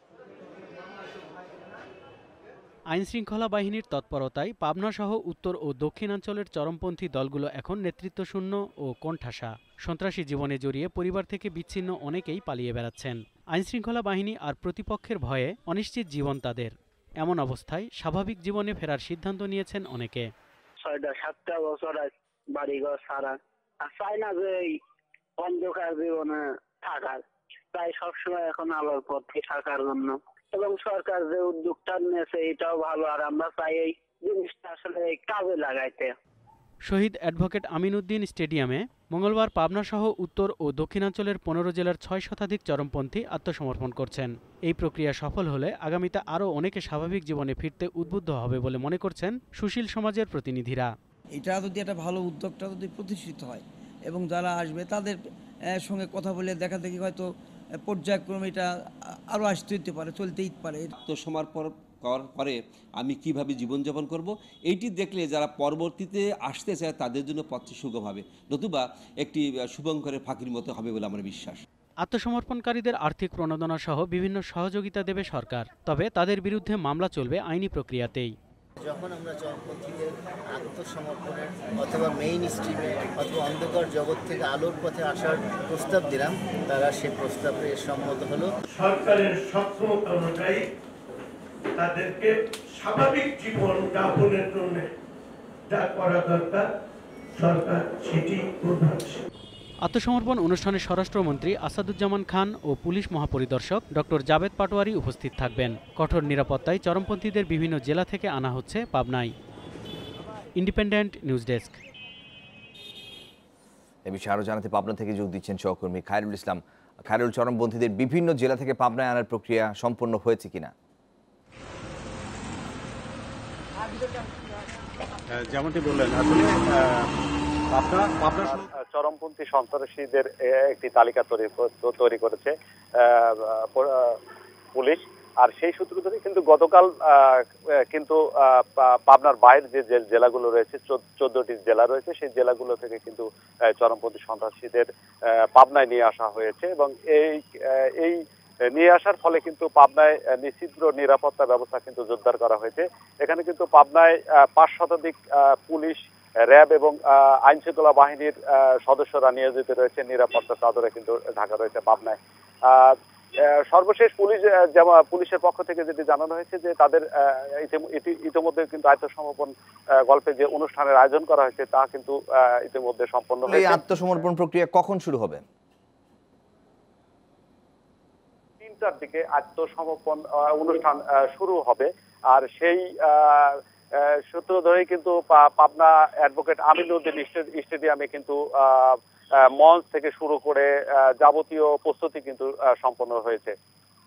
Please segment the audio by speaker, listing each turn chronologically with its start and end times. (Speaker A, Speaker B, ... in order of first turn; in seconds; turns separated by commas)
Speaker A: 2.9-20.3, Speaker B: 20.8-24.8, Speaker B: 25.4-36.1, Speaker A: 36.9-50.9, Speaker C: 51.3-55.2, Speaker C: 55.7-57.3, Speaker C: 57.8-58.7, Speaker C: 59.3-60.9, Speaker D: 61.0-71.6, Speaker A: 72.0-78.3, Speaker E: 78.8-88.5, Speaker F: 88.7-90.6, Speaker F: 91.8-94.9, Speaker F: 95.7-96.7, Speaker F: 97.4-99.2, Speaker A: 99.8-109.3, Speaker A: 110.6-111.8, Speaker G: 114.0-120.7, Speaker H: 125.3-127.1, Speaker H: 127.7-128.7, Speaker I: 128.9-134.1, Speaker I: 134.7-137.4, Speaker I: 137.9-144.9, Speaker I: 145.6-148.2, Speaker I: 148.7-156.0, Speaker I: 156.5-162.2, Speaker I: 162.7-162.9, Speaker I: 163.7-167.0, Speaker I: 167.6-169.5, Speaker I: 170.1-174.0, Speaker G: 173.5-175.4, Speaker I: 178.6-183.6, Speaker I: 184.3-188.9, Speaker I: 189.6-190.7, Speaker I: 191.2-193.5